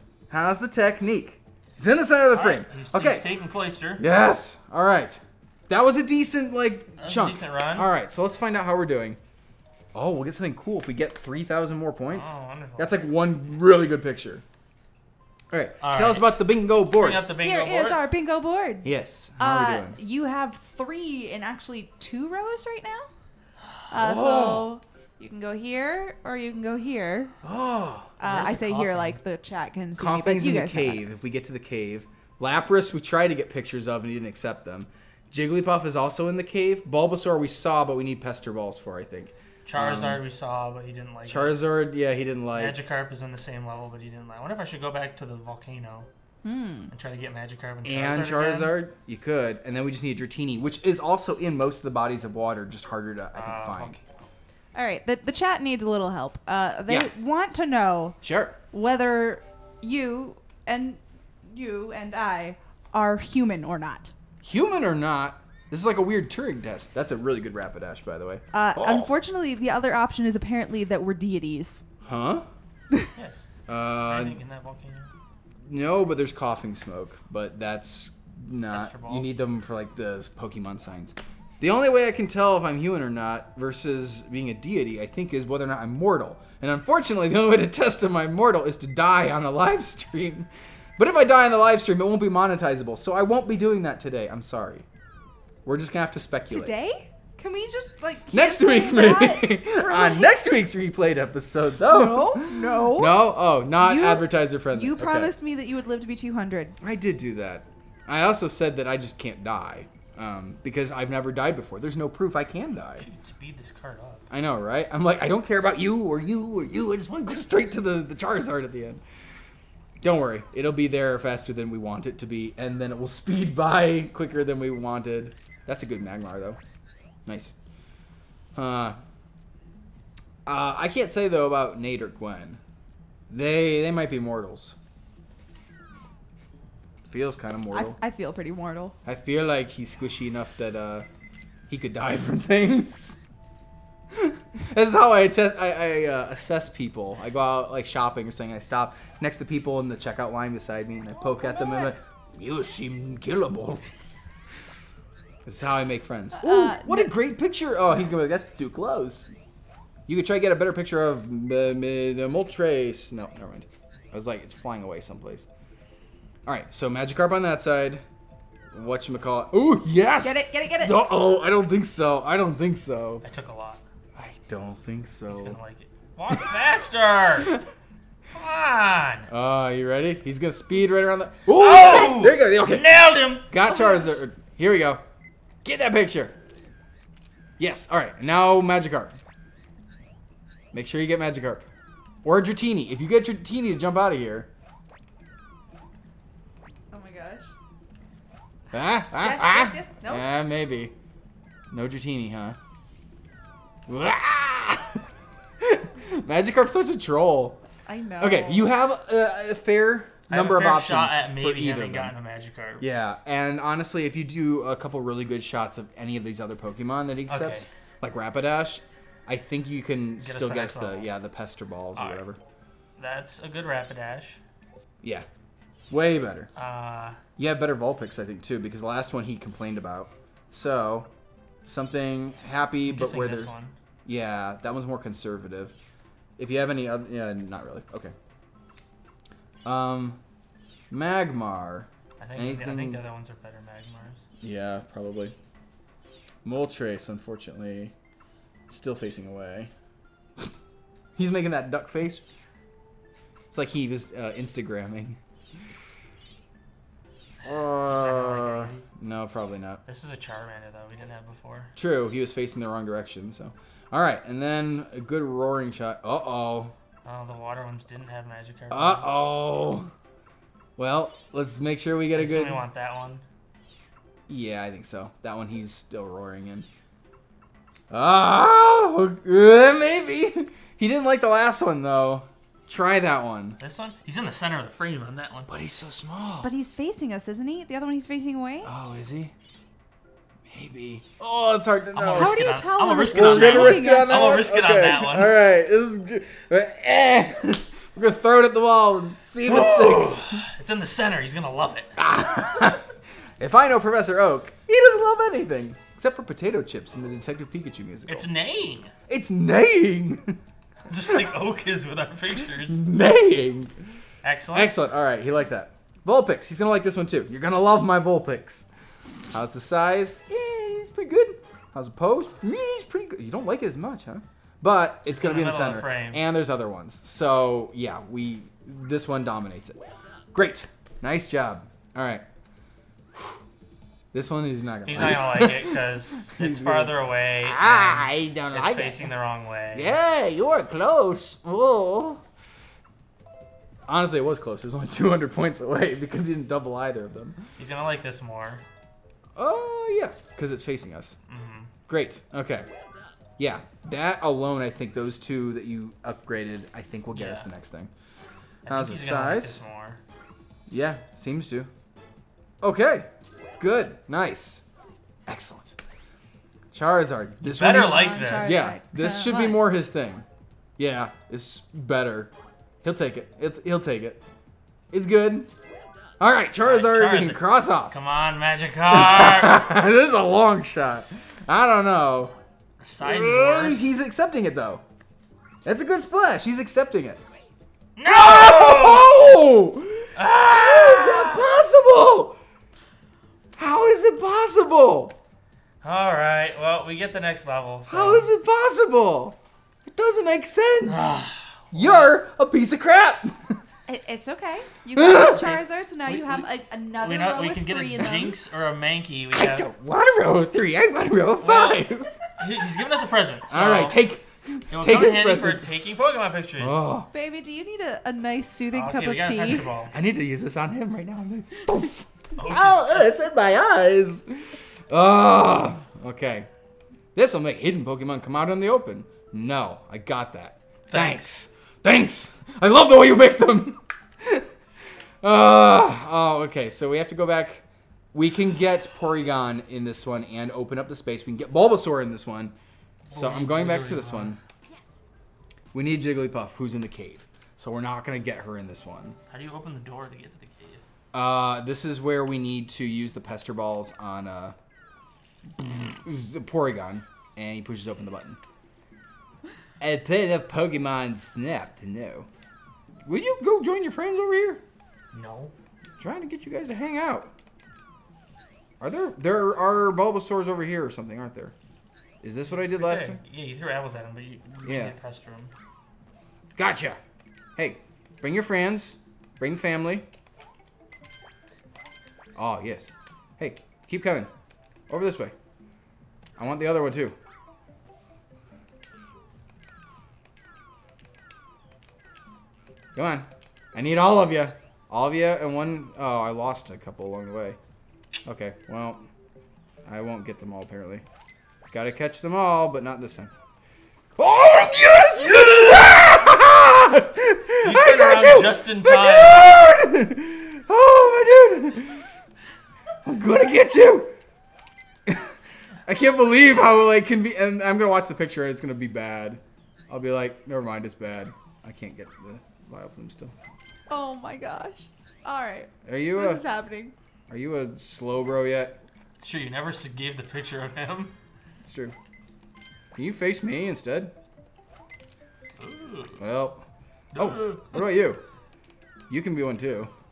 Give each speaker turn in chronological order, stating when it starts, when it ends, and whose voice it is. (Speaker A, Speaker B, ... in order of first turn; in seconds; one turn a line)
Speaker A: 0.3-3.3
Speaker B: 2.3-4.0
Speaker A: 4.0-9.2
Speaker B: 7.0-7.9
Speaker A: 9.9-14.4
Speaker B: 12.1-13.0
Speaker A: 15.5-17.3
Speaker B: 15.8-16.4
Speaker B: 16.9-18.0
Speaker C: 17.4-23.1
Speaker A: 18.8-20.0
Speaker C: 23.9-27.3
Speaker A: 23.9-24.7
Speaker A: 27.4-28.1
Speaker C: 28.2-31.1
Speaker B: 28.2-29.2
Speaker A: 30.0-40.2
Speaker B: 39.6-41.5
Speaker A: 41.2-42.8
Speaker B: 42.5-46.1
Speaker C: 46.4-46.9
Speaker B: 46.9-48.7
Speaker A: 47.8-54.0
Speaker B: 53.3-54.1
Speaker C: 54.7-58.2
Speaker A: 58.2-58.6
Speaker C: 58.7-64.1
Speaker A: 64.4-69.1
Speaker C: 68.5-71.8
Speaker A: 72.0-72.5
Speaker B: 73.2-75.1
Speaker A: 73.7-74.4
Speaker A: 75.7-94.8
Speaker B: 78.7-79.3
Speaker A: 95.6-96.7
Speaker C: 96.5-100.3
Speaker A: 98.3-105.3
Speaker C: 101.8-106.8
Speaker A: 106.8-113.0
Speaker B: 113.0-114.2
Speaker A: 114.3-119.0
Speaker A: 120.0-126.6
Speaker A: 127.2-127.5
Speaker A: 128.5-129.0
Speaker A: 130.4-132.6
Speaker A: 133.3-134.8
Speaker A: 137.1-138.0
Speaker C: 137.7-138.9
Speaker A: 139.0-141.1
Speaker A: 141.7-143.2
Speaker A: 144.1-153.8
Speaker B: 151.1-152.0
Speaker A: 155.4-159.3
Speaker C: 156.4-157.1
Speaker A: 160.1-165.5
Speaker A: 166.4-168.0
Speaker A: 168.7-173.2
Speaker C: 170.2-171.0
Speaker B: 173.2-173.8
Speaker A: 174.2-175.6
Speaker B: 175.3-177.6
Speaker A: 176.3-176.6
Speaker B: 178.3-179.3
Speaker A: 179.3-185.0
Speaker B: 181.5-183.5
Speaker C: 183.6-184.2
Speaker A: 185.6-186.3
Speaker A: 187.6-189.2
Speaker A: 190.7-191.7
Speaker A: 192.2-194.5
Speaker C: 196.9-197.5
Speaker A: 198.7-200.9
Speaker C: 199.2-200.2
Speaker A: 201.7-202.6
Speaker A: 203.9-205.1
Speaker A: 205.6-207.6
Speaker C: 207.8-208.7
Speaker A: 208.2-212.1
Speaker B: 210.3-212.8
Speaker A: 212.8-222.4
Speaker B: 217.3-217.7
Speaker B: 220.2-221.1
Speaker B: 221.9-222.2
Speaker B: 223.0-224.4
Speaker A: 225.0-225.3
Speaker A: 225.9-226.5
Speaker B: 226.6-227.2
Speaker A: 227.4-231.1
Speaker A: 231.6-233.5
Speaker B: 232.8-233.7
Speaker A: 234.0-235.8
Speaker A: 236.4-238.1
Speaker A: 239.6-240.2
Speaker A: 240.9-243.0
Speaker B: 242.2-244.2
Speaker A: 244.4-245.3
Speaker A: 246.4-247.9
Speaker A: 248.7-249.7
Speaker A: 251.2-252.2
Speaker A: 253.5-255.2
Speaker A: 257.4-259.8
Speaker B: 257.5-258.8
Speaker B: 259.9-261.7
Speaker A: 261.8-266.7
Speaker B: 267.0-269.1
Speaker A: 268.7-269.9
Speaker A: 270.8-272.6
Speaker B: 272.1-273.2
Speaker A: 274.3-276.7
Speaker A: 277.9-283.6
Speaker B: 283.6-285.5
Speaker A: 285.5-286.5
Speaker C: 286.4-288.7
Speaker A: 288.6-289.3
Speaker A: 290.5-292.4
Speaker B: 291.9-295.4
Speaker C: 292.1-294.5
Speaker A: 293.1-300.4
Speaker B: 299.4-302.0
Speaker A: 302.0-308.3
Speaker B: 308.1-308.9
Speaker A: 309.1-310.4
Speaker B: 310.8-312.8
Speaker A: 312.7-313.8
Speaker B: 314.2-314.7
Speaker A: 314.5-318.7
Speaker A: 319.3-329.8
Speaker B: 325.1-326.2
Speaker A: 330.3-332.2
Speaker A: 333.1-333.4
Speaker A: 334.1-339.1
Speaker B: 334.9-340.0
Speaker A: 339.7-342.2
Speaker A: 343.9-347.4
Speaker B: 347.6-348.6
Speaker A: 349.4-351.2
Speaker B: 351.3-351.7
Speaker A: 351.9-352.7
Speaker A: 353.4-357.9
Speaker B: 357.1-357.5
Speaker B: 358.6-360.0
Speaker A: 358.7-359.6
Speaker A: 360.7-361.7
Speaker A: 362.6-364.6
Speaker A: 365.3-365.8
Speaker A: 366.7-370.2
Speaker B: 367.4-368.7
Speaker C: 367.7-369.6
Speaker A: 370.8-372.3
Speaker A: 372.8-374.2
Speaker A: 374.9-375.5
Speaker A: 376.2-378.0
Speaker B: 376.6-379.6
Speaker A: 378.9-382.3
Speaker B: 382.8-383.9
Speaker A: 383.0-384.8
Speaker A: 385.6-387.2
Speaker B: 388.0-389.1
Speaker A: 388.1-392.4
Speaker B: 390.1-391.5
Speaker A: 393.6-395.1
Speaker B: 395.8-398.3
Speaker A: 397.9-401.2
Speaker B: 400.9-402.1
Speaker A: 401.7-403.6
Speaker C: 403.9-408.3
Speaker A: 404.9-405.6
Speaker B: 405.1-406.5
Speaker B: 407.0-409.6
Speaker A: 409.3-412.1
Speaker B: 411.4-414.0
Speaker A: 413.5-415.6
Speaker B: 414.7-416.9
Speaker A: 416.6-417.1
Speaker C: 417.1-419.7
Speaker B: 418.7-419.9
Speaker A: 419.9-426.5
Speaker B: 422.4-423.1
Speaker A: 427.1-434.5
Speaker B: 430.9-431.3
Speaker A: 435.2-442.5
Speaker B: 443.1-444.4
Speaker A: 443.1-444.4
Speaker A: 445.7-449.2
Speaker B: 449.3-450.8
Speaker A: 451.1-454.6
Speaker A: 455.5-458.4
Speaker A: 459.8-462.3
Speaker A: 463.1-464.6
Speaker B: 465.1-465.5
Speaker A: 466.0-467.3
Speaker A: 468.8-471.5
Speaker A: 472.2-473.2
Speaker B: 472.5-475.5
Speaker A: 474.6-474.9
Speaker A: 476.6-477.0
Speaker A: 477.6-480.1
Speaker A: 482.4-484.3
Speaker A: 484.9-485.3
Speaker A: 486.4-487.1
Speaker A: 492.9-497.6
Speaker A: 498.2-499.1
Speaker A: 499.9-501.0
Speaker A: 501.7-503.3
Speaker A: 504.2-512.1
Speaker B: 507.6-509.6
Speaker A: 513.0-514.1
Speaker A: 515.0-523.3
Speaker C: 523.9-526.9
Speaker A: 525.9-526.4
Speaker A: 527.3-528.8
Speaker B: 529.2-531.1
Speaker A: 531.6-531.9
Speaker A: 532.9-534.1
Speaker B: 535.6-536.2
Speaker A: 536.2-538.2
Speaker B: 537.1-537.8
Speaker A: 539.1-539.9